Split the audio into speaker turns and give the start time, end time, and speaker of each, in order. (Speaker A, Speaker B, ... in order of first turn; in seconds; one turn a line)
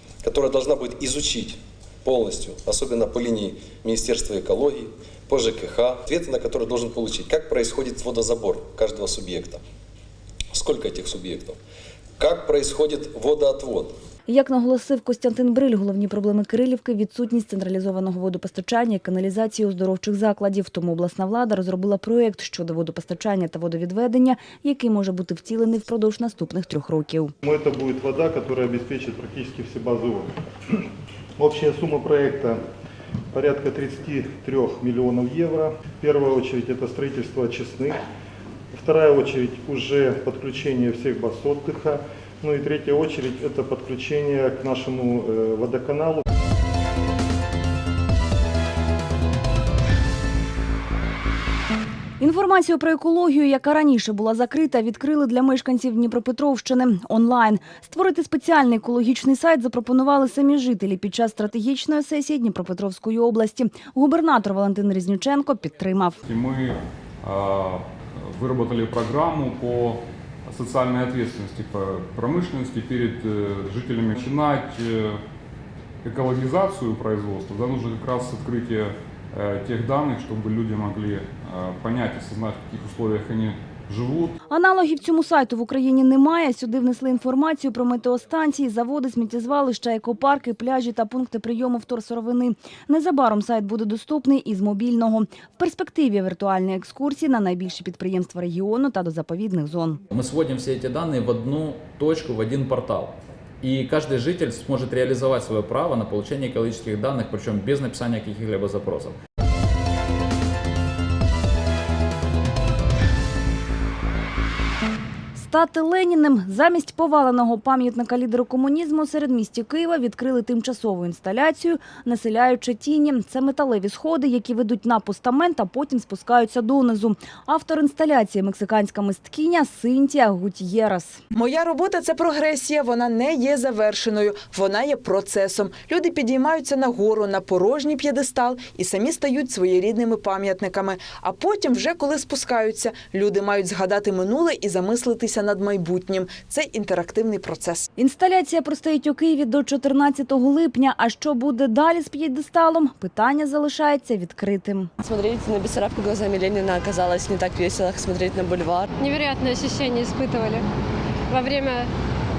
Speaker A: 0.2-9.6
Speaker A: 10.5-11.6
Speaker A: 12.2-14.0
Speaker B: 14.3-27.3
Speaker C: 27.4-30.8
Speaker C: 31.4-32.6
Speaker C: 33.3-38.0
Speaker C: 38.7-46.2
Speaker B: 52.2-66.2
Speaker D: 66.2-75.2
Speaker D: 76.0-84.3
Speaker B: 84.5-100.0
Speaker E: 100.1-109.2
Speaker B: 115.3-131.2
Speaker F: 131.3-147.9
Speaker B: 148.0-154.9
Speaker G: 155.0-158.9
Speaker H: 159.0-160.7
Speaker H: 161.3-161.9